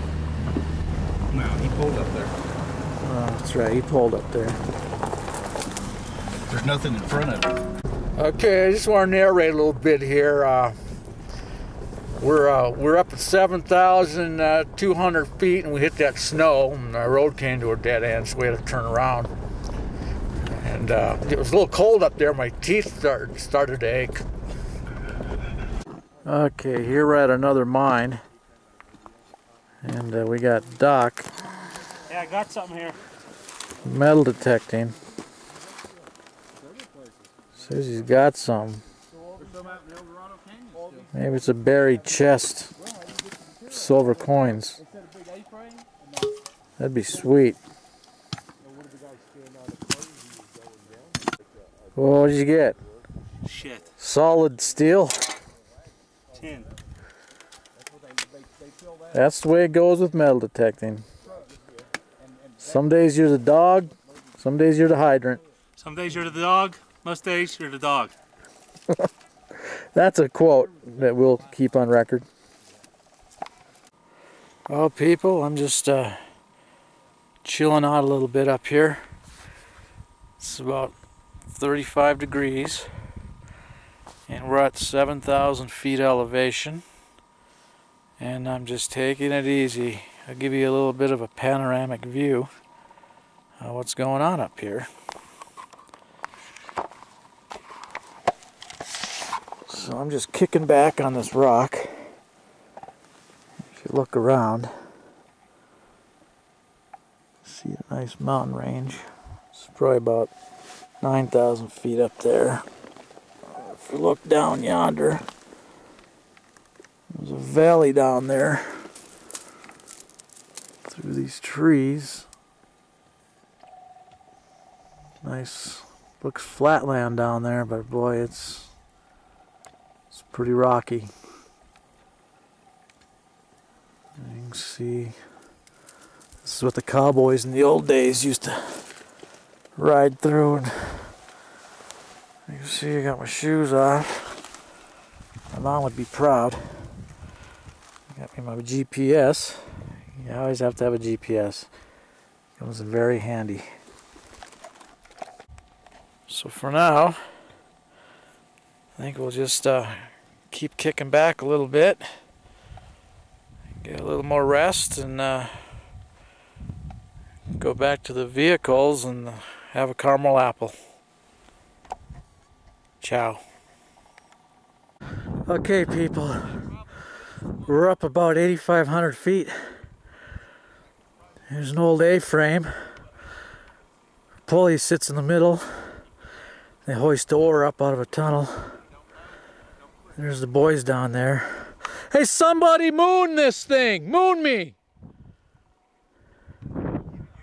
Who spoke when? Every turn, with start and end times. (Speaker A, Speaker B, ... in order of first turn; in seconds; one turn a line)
Speaker A: 1.3-2.3
Speaker B: 3.0-4.6
Speaker A: 6.5-7.6
Speaker B: 8.2-10.8
Speaker B: 12.2-19.3
Speaker B: 20.5-24.2
Speaker B: 26.2-28.2
Speaker B: 29.8-31.3
Speaker C: 32.1-33.0
Speaker B: 33.8-35.0
Speaker B: 37.5-38.8
Speaker A: 39.7-40.9
Speaker B: 41.1-42.7
Speaker B: 43.7-44.8
Speaker B: 46.8-47.6
Speaker B: 52.0-52.8
Speaker C: 53.4-53.9
Speaker B: 54.0-55.2
Speaker C: 56.4-56.7
Speaker B: 59.1-61.0
Speaker B: 62.6-65.4
Speaker C: 65.8-68.2
Speaker B: 69.7-72.3
Speaker B: 74.7-76.2
Speaker B: 77.4-79.0
Speaker B: 80.4-81.0
Speaker B: 81.5-82.9
Speaker B: 84.3-86.8
Speaker B: 88.2-92.5
Speaker B: 93.6-94.9
Speaker B: 99.7-102.1
Speaker B: 103.7-104.7
Speaker B: 107.4-110.3
Speaker B: 111.0-112.6
Speaker B: 113.5-115.2
Speaker B: 117.1-118.9
Speaker B: 120.8-122.3
Speaker B: 125.2-128.7
Speaker B: 130.1-131.1
Speaker B: 134.2-135.2
Speaker B: 136.4-138.8
Speaker B: 139.8-141.1
Speaker B: 142.5-144.4
Speaker B: 145.5-146.9
Speaker B: 148.1-151.7
Speaker B: 152.6-153.7
Speaker B: 156.3-157.2
Speaker B: 159.0-162.1
Speaker B: 163.8-165.6
Speaker B: 167.6-170.8
Speaker B: 173.0-173.4
Speaker B: 175.5-176.7
Speaker B: 177.6-179.8
Speaker B: 181.5-182.7
Speaker B: 184.5-186.0
Speaker B: 186.8-188.8
Speaker B: 190.2-194.8